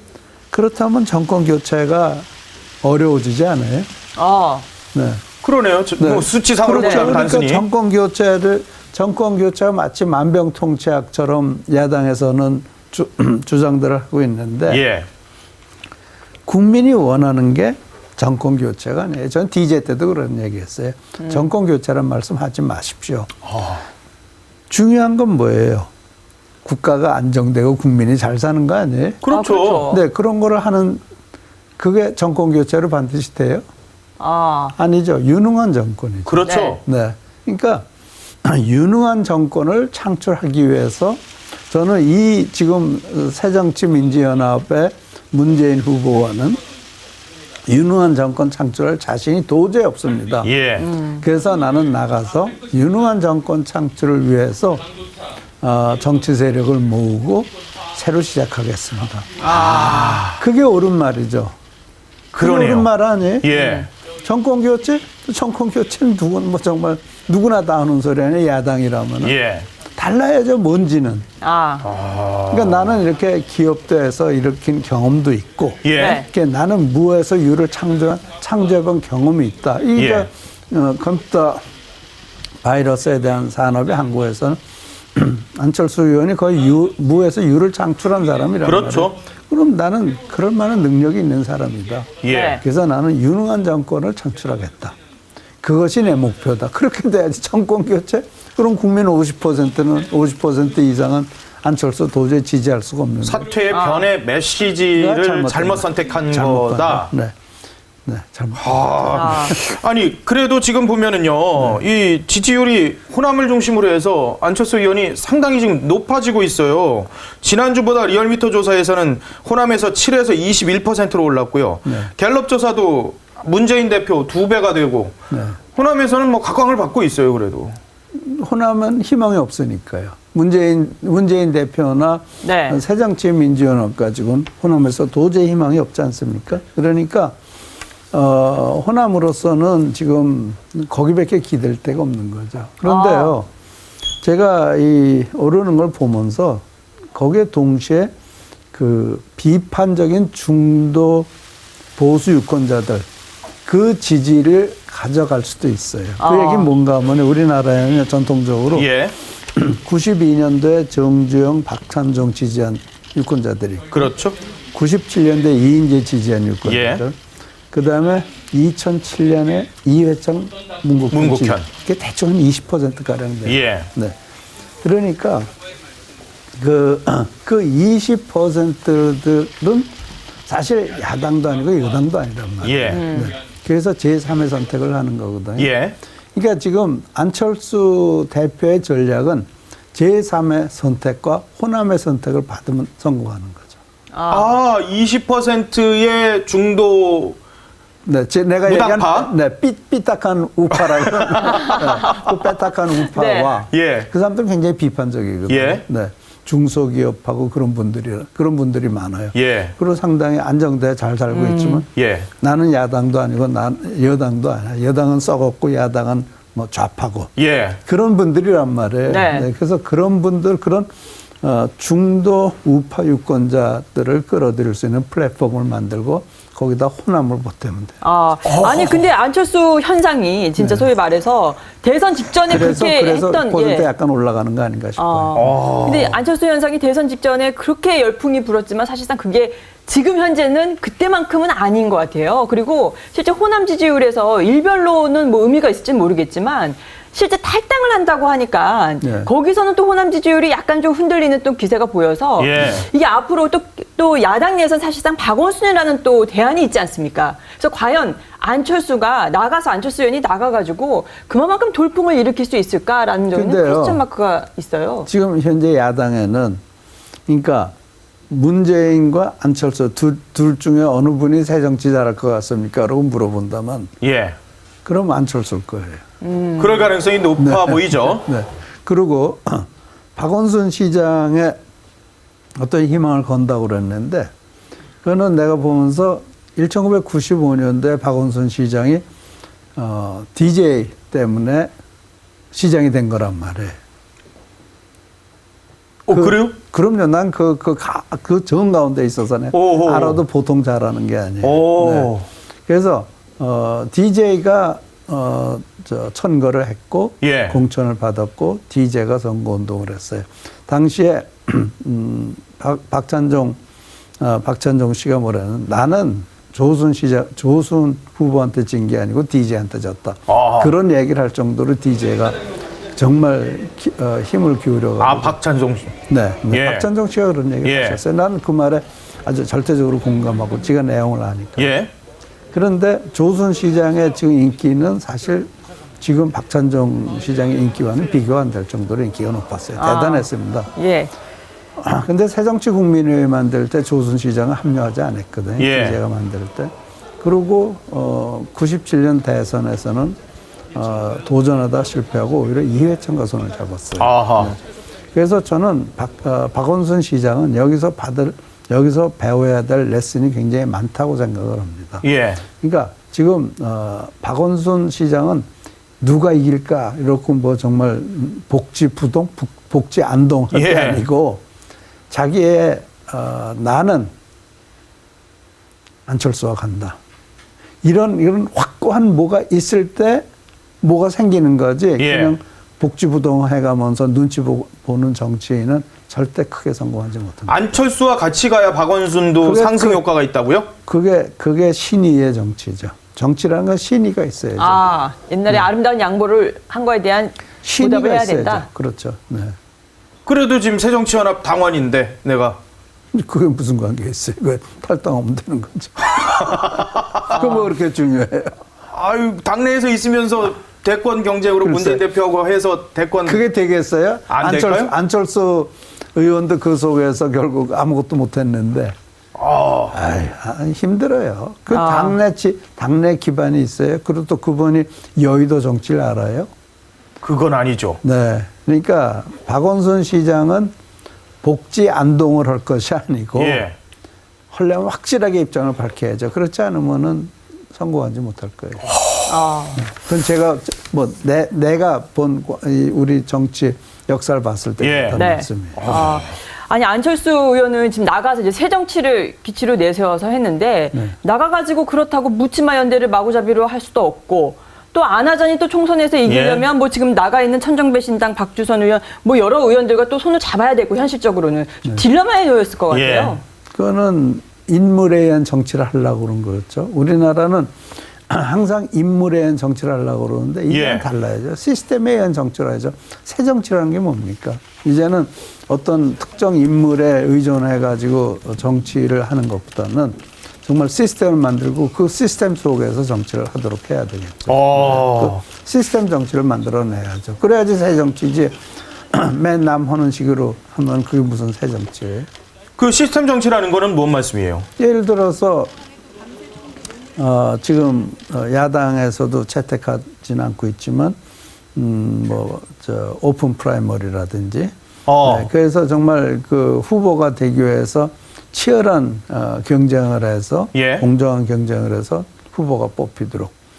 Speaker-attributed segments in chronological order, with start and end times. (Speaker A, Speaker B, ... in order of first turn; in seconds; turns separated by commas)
Speaker A: 0.5-2.3, Speaker A: 2.8-3.9, Speaker B: 4.2-4.7, Speaker A: 4.9-5.2, Speaker C: 5.4-7.6, Speaker A: 6.0-14.8, Speaker B: 6.7-7.2, Speaker C: 14.7-15.1, Speaker A: 16.4-23.3, Speaker B: 21.2-21.5, Speaker C: 23.5-23.8, Speaker A: 24.7-25.9, Speaker A: 26.6-29.2, Speaker C: 29.2-29.9, Speaker B: 29.3-30.0, Speaker A: 29.9-31.0, Speaker A: 31.8-33.6, Speaker B: 34.2-34.7, Speaker A: 34.8-37.8, Speaker C: 36.2-36.8, Speaker B: 36.5-36.8, Speaker A: 38.4-46.6, Speaker A: 47.7-50.5, Speaker C: 50.4-50.9, Speaker B: 50.8-51.2, Speaker A: 51.1-54.8, Speaker A: 55.6-61.5, Speaker C: 59.4-60.4, Speaker B: 59.5-60.2, Speaker C: 62.3-62.9, Speaker A: 62.4-63.6, Speaker C: 63.4-63.9, Speaker B: 63.5-63.9, Speaker A: 64.2-69.3, Speaker C: 69.2-69.7, Speaker A: 69.9-71.2, Speaker B: 71.4-71.8, Speaker C: 71.8-73.0, Speaker A: 72.5-81.6, Speaker C: 75.8-76.2, Speaker B: 76.0-76.3, Speaker C: 79.9-80.3, Speaker A: 82.6-84.6, Speaker A: 85.1-95.0, Speaker C: 88.6-89.2, Speaker C: 92.2-92.6, Speaker B: 92.2-92.6, Speaker A: 95.6-103.5, Speaker C: 103.2-107.1, Speaker B: 103.7-104.1, Speaker A: 104.9-107.3, Speaker A: 108.0-109.6, Speaker C: 108.6-125.2, Speaker B: 109.1-109.5, Speaker A: 121.8-122.1, Speaker A: 125.3-125.6, Speaker C: 125.7-127.8, Speaker A: 128.1-137.3, Speaker B: 132.4-132.8, Speaker A: 138.1-143.5, Speaker B: 142.8-143.4, Speaker A: 144.2-148.1, Speaker A: 148.7-151.3, Speaker A: 152.0-153.1, Speaker A: 153.7-158.9, Speaker B: 156.2-156.7, Speaker C: 158.7-159.1, Speaker A: 159.5-163.9, Speaker C: 163.9-164.4, Speaker A: 164.7-167.2, Speaker C: 166.6-167.0, Speaker A: 167.7-174.2, Speaker C: 171.1-171.7, Speaker C: 173.4-173.9, Speaker A: 174.8-175.5, Speaker A: 176.6-179.9, Speaker A: 180.5-185.7, Speaker C: 182.6-183.0, Speaker B: 182.9-183.3, Speaker C: 185.6-185.9, Speaker A: 186.3-193.8, Speaker B: 194.1-194.5, Speaker C: 194.3-197.4, Speaker A: 198.0-211.9, Speaker C: 198.7-199.3, Speaker C: 200.7-201.9, Speaker B: 201.6-202.2, Speaker B: 203.1-203.5, Speaker C: 203.7-204.1, Speaker C: 205.5-205.8, Speaker C: 209.3-209.7, Speaker B: 211.3-211.8, Speaker C: 211.9-212.3, Speaker A: 212.4-217.3, Speaker C: 217.4-217.8, Speaker A: 217.8-220.9, Speaker B: 219.1-219.5, Speaker A: 221.4-228.0, Speaker B: 228.0-233.9, Speaker C: 228.4-229.1, Speaker A: 230.6-230.9, Speaker A: 232.5-235.5, Speaker B: 235.0-265.1, Speaker C: 235.3-236.2, Speaker A: 249.0-249.3, Speaker C: 252.4-252.8, Speaker A: 263.3-264.0, Speaker A: 265.1-266.6, Speaker A: 267.3-267.7, Speaker A: 268.3-273.9, Speaker C: 274.0-274.4, Speaker A: 274.8-276.0, Speaker B: 276.2-276.9, Speaker C: 276.6-278.2, Speaker A: 277.4-281.6, Speaker A: 282.6-284.3, Speaker A: 285.0-289.0, Speaker A: 289.8-291.7, Speaker A: 292.5-293.8, Speaker C: 296.1-296.6, Speaker A: 296.1-302.1, Speaker C: 299.5-300.2, Speaker C: 301.4-302.2, Speaker A: 302.7-313.6, Speaker C: 307.2-307.6, Speaker A: 314.2-322.4, Speaker C: 320.3-320.7, Speaker A: 322.9-325.4, Speaker C: 325.0-325.9, Speaker A: 326.1-331.8, Speaker C: 326.5-326.9, Speaker C: 327.6-328.0, Speaker C: 331.6-331.9, Speaker A: 332.5-335.5, Speaker A: 336.0-340.7, Speaker B: 339.8-341.1, Speaker A: 341.8-350.2, Speaker C: 345.6-346.0, Speaker A: 350.7-354.6, Speaker C: 354.0-354.5, Speaker A: 355.1-362.0, Speaker C: 362.0-362.4, Speaker A: 362.6-365.5, Speaker A: 366.0-371.4, Speaker C: 370.5-371.0, Speaker A: 372.1-374.1, Speaker A: 376.1-377.0, Speaker A: 377.8-380.2, Speaker A: 380.8-387.6, Speaker C: 382.0-382.4, Speaker C: 387.5-390.7, Speaker A: 389.4-390.0, Speaker A: 390.9-394.9, Speaker B: 394.6-398.6, Speaker A: 397.6-399.5, Speaker C: 400.2-402.6, Speaker A: 403.1-408.5, Speaker C: 406.2-407.5, Speaker B: 407.4-407.6, Speaker C: 408.9-413.4, Speaker A: 411.6-412.0, Speaker A: 413.2-418.9, Speaker C: 414.3-414.9, Speaker C: 419.4-420.0, Speaker A: 419.9-426.5, Speaker B: 421.7-422.2, Speaker C: 427.2-428.0, Speaker A: 428.0-430.7, Speaker A: 431.4-433.7, Speaker C: 433.3-433.7, Speaker A: 434.5-438.9, Speaker C: 438.9-439.2, Speaker B: 439.3-439.8, Speaker A: 439.8-446.0, Speaker C: 444.8-445.2, Speaker B: 445.1-463.4, Speaker C: 445.8-446.3, Speaker C: 456.3-456.6, Speaker C: 462.9-463.4, Speaker A: 463.7-467.7, Speaker A: 468.3-488.6, Speaker C: 470.7-471.1, Speaker C: 484.5-485.4, Speaker A: 489.1-492.3, Speaker C: 492.8-494.6, Speaker A: 494.8-495.7, Speaker A: 497.2-501.1, Speaker A: 501.7-513.5, Speaker C: 505.1-505.5, Speaker C: 510.7-511.1